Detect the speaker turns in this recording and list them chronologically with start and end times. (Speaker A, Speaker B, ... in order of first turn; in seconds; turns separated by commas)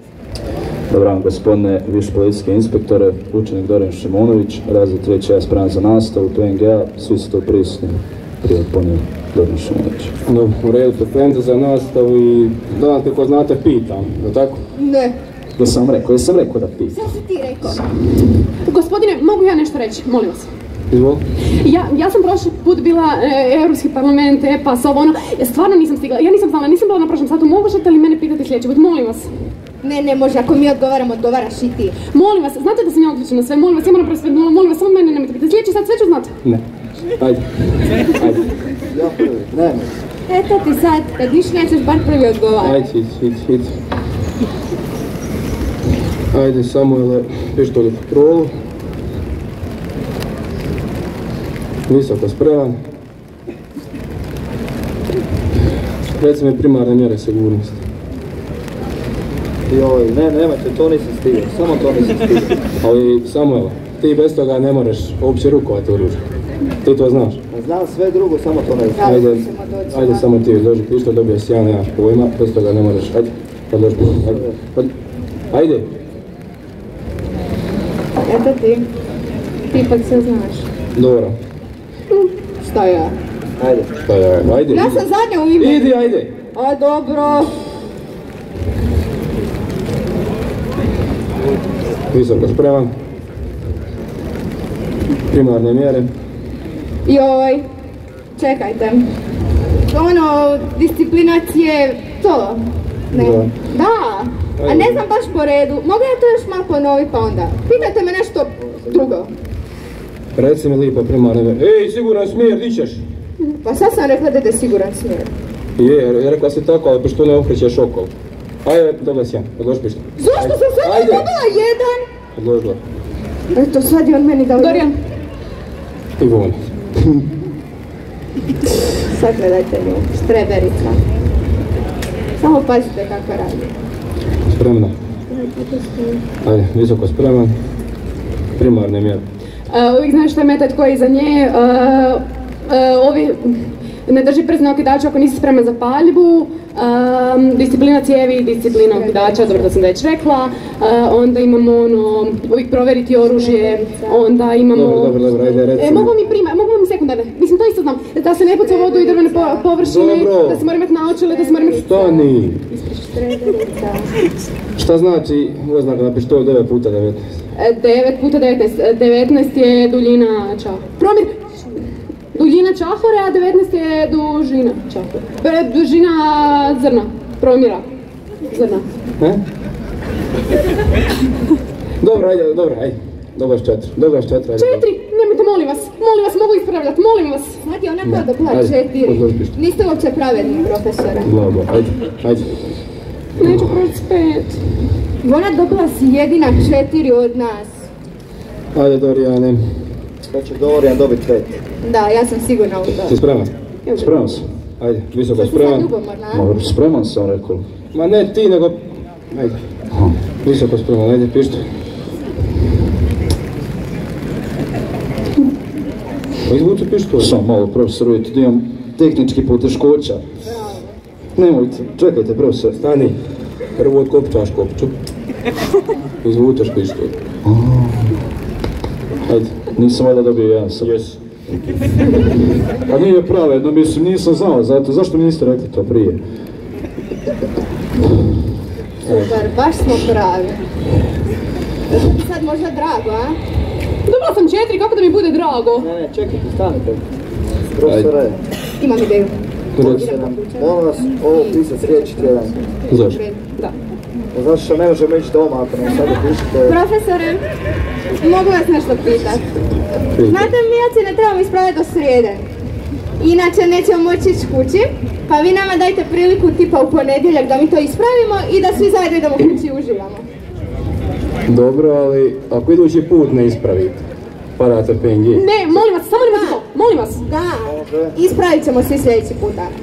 Speaker A: 0.9-10.1, Speaker B: 10.2-14.6, Speaker C: 14.7-15.1, Speaker A: 15.6-17.0, Speaker C: 16.9-17.9, Speaker D: 18.6-20.5, Speaker B: 20.9-21.2, Speaker D: 21.5-29.3, Speaker C: 29.8-31.9, Speaker D: 32.1-36.4, Speaker B: 37.2-38.4, Speaker E: 38.9-39.9, Speaker C: 40.3-42.9, Speaker B: 42.6-43.7, Speaker B: 46.3-48.5, Speaker B: 51.9-52.8, Speaker B: 56.1-57.8, Speaker E: 59.7-62.6, Speaker B: 62.8-66.2, Speaker B: 66.8-67.4, Speaker E: 67.5-69.2, Speaker C: 68.9-70.2, Speaker B: 69.1-74.9, Speaker E: 74.2-74.6, Speaker B: 75.5-75.9, Speaker C: 78.2-78.9, Speaker C: 79.7-80.6, Speaker B: 81.0-81.3, Speaker C: 82.6-83.1, Speaker E: 83.6-83.9, Speaker B: 84.0-85.0, Speaker C: 84.6-87.5, Speaker B: 85.6-86.3, Speaker B: 92.1-92.9, Speaker B: 95.3-96.1, Speaker C: 97.0-97.7, Speaker C: 98.4-99.1, Speaker C: 99.9-109.3, Speaker B: 103.1-103.5, Speaker B: 104.6-105.0, Speaker B: 110.3-113.0, Speaker C: 113.4-115.3, Speaker B: 115.8-118.1, Speaker B: 118.6-121.3, Speaker C: 120.2-122.0, Speaker B: 122.3-122.8, Speaker C: 123.5-124.9, Speaker D: 124.6-124.9, Speaker B: 126.2-126.7, Speaker C: 129.1-131.0, Speaker C: 132.4-133.7, Speaker B: 134.5-134.9, Speaker C: 135.3-136.2, Speaker B: 136.4-137.5, Speaker B: 138.6-139.2, Speaker D: 139.7-162.1, Speaker C: 148.9-149.7, Speaker C: 153.2-154.3, Speaker B: 154.7-156.1, Speaker C: 158.2-159.7, Speaker B: 159.8-160.6, Speaker C: 161.2-164.1, Speaker B: 161.9-162.6, Speaker B: 164.8-167.3, Speaker D: 167.5-171.4, Speaker D: 172.3-177.8, Speaker D: 178.5-178.9, Speaker B: 182.0-184.8, Speaker D: 184.6-187.6, Speaker C: 187.6-191.3, Speaker B: 188.1-189.5, Speaker B: 191.2-192.9, Speaker D: 193.4-194.6, Speaker B: 193.4-193.7, Speaker C: 195.2-197.7, Speaker B: 198.7-199.9, Speaker E: 200.3-201.6, Speaker C: 201.8-203.1, Speaker B: 203.1-203.5, Speaker D: 203.8-204.2, Speaker A: 203.9-204.5, Speaker B: 204.8-205.9, Speaker C: 205.3-206.5, Speaker A: 206.3-207.6, Speaker B: 207.9-209.6, Speaker B: 210.4-211.7, Speaker B: 216.4-217.3, Speaker A: 217.2-220.2, Speaker A: 221.3-222.8, Speaker B: 222.8-223.2, Speaker B: 223.8-224.9, Speaker B: 226.2-227.1, Speaker A: 227.4-228.1, Speaker B: 229.2-229.6, Speaker A: 229.7-230.9, Speaker B: 230.8-231.2, Speaker A: 232.9-236.2, Speaker C: 239.0-240.6, Speaker C: 241.9-243.4, Speaker D: 244.1-245.9, Speaker E: 245.8-247.0, Speaker E: 247.7-248.4, Speaker C: 248.8-252.3, Speaker E: 249.8-252.6, Speaker C: 252.9-253.4, Speaker B: 252.9-253.2, Speaker E: 254.3-256.8, Speaker C: 256.6-257.4, Speaker C: 258.2-259.5, Speaker B: 260.1-260.5, Speaker C: 260.2-262.4, Speaker C: 263.2-270.2, Speaker B: 271.4-274.1, Speaker B: 274.6-275.4, Speaker D: 275.3-277.2, Speaker C: 276.1-276.6, Speaker C: 277.2-279.7, Speaker E: 277.6-278.1